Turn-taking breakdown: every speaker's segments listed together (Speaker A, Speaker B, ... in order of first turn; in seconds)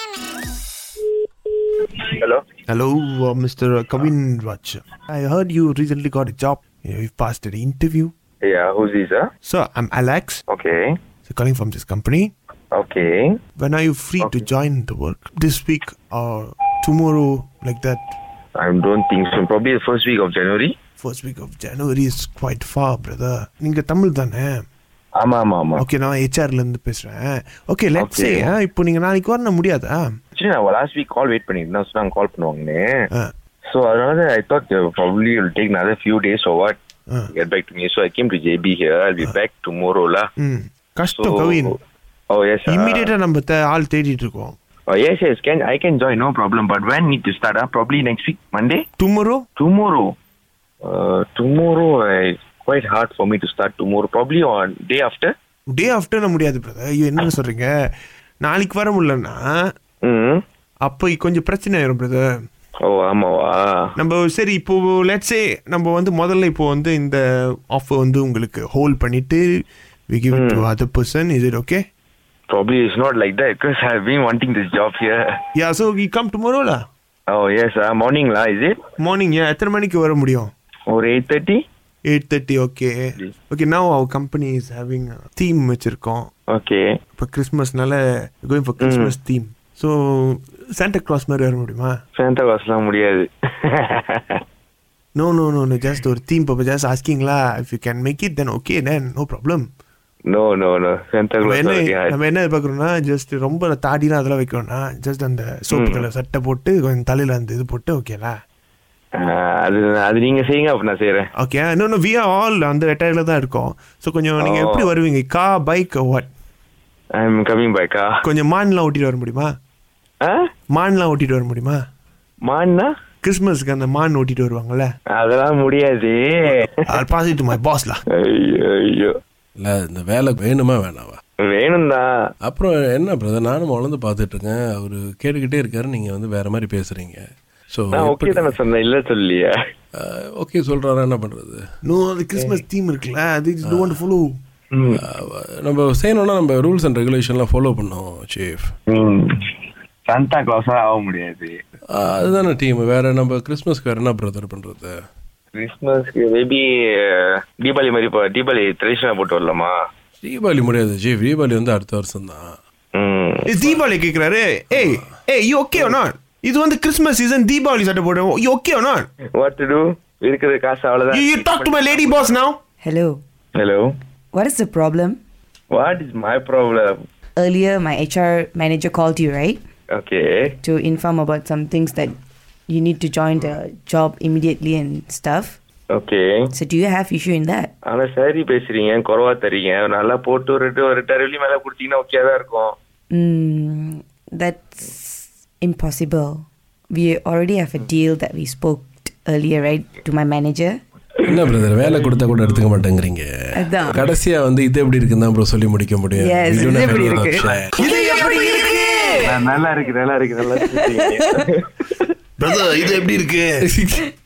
Speaker A: 2.0-2.4, 8.4-9.3, 10.5-11.0, 12.7-13.4, 18.6-20.8, 25.2-25.8, 28.0-28.5, 30.4-33.0, 33.7-36.8, 37.3-40.3, 41.1-41.8, 42.3-43.1, 44.9-48.9, 49.6-50.1, 50.8-55.3, 60.0-60.4, 62.8-63.9, 70.3-70.7, 72.5-75.2, 77.3-78.8, 80.9-81.6, 86.5-86.8, 88.8-89.2, 92.2-94.4, 100.3-102.2, 105.7-106.1, 109.2-111.3, 114.4-114.9, 117.1-118.1, 122.5-122.9, 125.1-126.8, 128.1-129.1, 131.4-132.1, 137.9-139.5, 142.4-142.6, 144.7-145.0, 148.9-149.3, 150.1-151.6, 155.6-159.8, 162.9-163.5, 169.4-172.4, 173.6-173.9, 175.7-177.0, 179.9-180.6, 185.9-186.4, 187.9-192.8, 209.2-211.6
Speaker B: 2.7-8.1, 9.4-10.4, 11.3-12.3, 13.6-18.1, 21.0-24.6, 25.8-30.1, 40.4-41.7, 42.7-44.6, 49.0-49.5, 55.7-57.7, 58.4-59.4, 60.9-62.3, 64.0-69.4, 70.1-71.8, 75.6-76.8, 79.0-80.5, 82.1-86.3, 87.2-92.0, 95.2-99.7, 101.4-108.3, 111.4-116.3, 118.2-119.5, 120.7-121.8, 123.2-124.9, 126.8-128.0, 141.8-144.3, 163.5-169.1, 171.1-172.6, 208.0-208.7, 212.4-213.6
Speaker C: 129.6-131.2, 132.4-138.6, 140.0-141.6, 143.7-144.0, 145.0-148.7, 151.9-154.9, 160.2-162.6, 201.2-203.3, 203.8-207.9, 213.6-214.0
Speaker D: 172.8-173.2, 174.3-175.2, 177.4-179.6, 180.6-182.2, 182.7-185.6, 186.5-187.7, 193.1-200.8, 203.6-204.1, 206.2-209.1, 210.9-211.5